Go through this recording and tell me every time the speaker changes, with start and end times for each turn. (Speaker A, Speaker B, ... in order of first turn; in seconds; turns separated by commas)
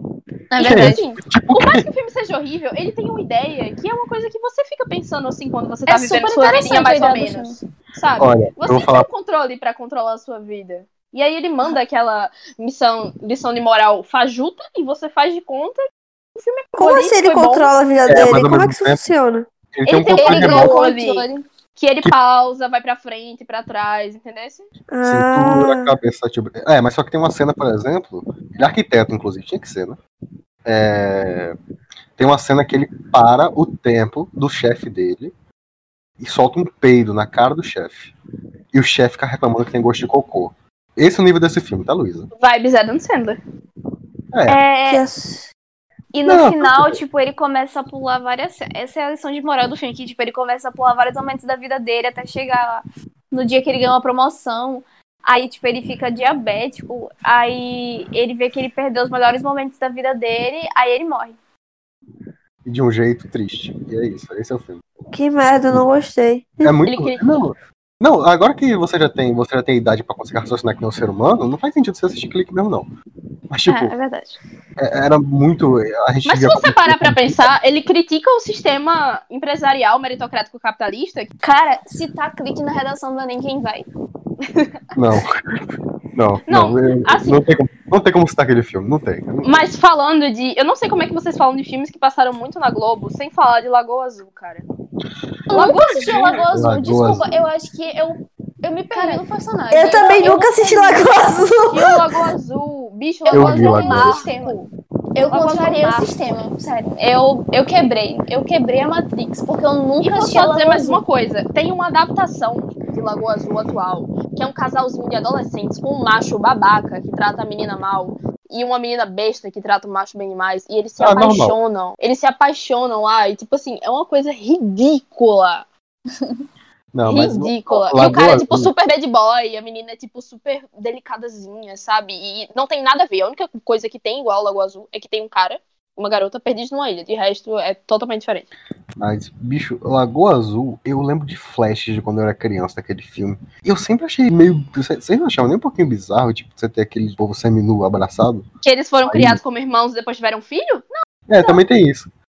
Speaker A: 0.5-1.0, Speaker B: 0.6-1.9, Speaker C: 0.6-15.8, Speaker A: 5.9-7.6, Speaker B: 8.2-9.1, Speaker C: 16.4-17.7, Speaker D: 16.7-19.5, Speaker B: 18.1-19.1, Speaker B: 19.8-20.7, Speaker C: 19.9-24.7, Speaker A: 20.1-21.4, Speaker D: 24.9-25.9, Speaker B: 25.0-30.0, Speaker B: 30.6-31.6, Speaker B: 32.2-35.3, Speaker B: 36.2-38.1, Speaker B: 38.7-42.3, Speaker C: 42.4-43.4, Speaker B: 44.3-44.6, Speaker A: 44.5-45.0, Speaker D: 44.9-45.5, Speaker A: 46.1-61.4, Speaker B: 46.3-47.0, Speaker B: 62.6-64.8, Speaker D: 65.1-66.8, Speaker B: 66.6-72.9, Speaker C: 66.9-67.4, Speaker B: 73.5-74.0, Speaker A: 73.7-74.4, Speaker B: 74.8-77.5, Speaker C: 76.3-81.3, Speaker A: 81.4-83.9, Speaker B: 85.0-89.7, Speaker C: 86.5-87.4, Speaker C: 89.4-94.7, Speaker A: 95.5-101.4, Speaker C: 95.5-96.4, Speaker B: 96.1-97.4, Speaker C: 98.9-99.2, Speaker D: 99.7-102.1, Speaker C: 101.7-104.7, Speaker A: 103.2-104.6, Speaker B: 103.3-104.2, Speaker A: 105.2-111.0, Speaker C: 105.3-106.1, Speaker C: 110.0-125.7, Speaker B: 121.0-121.6, Speaker A: 126.2-126.4, Speaker B: 126.9-128.7, Speaker C: 127.1-138.5, Speaker B: 139.0-148.5, Speaker C: 148.6-150.9, Speaker B: 149.0-149.4, Speaker B: 151.3-152.1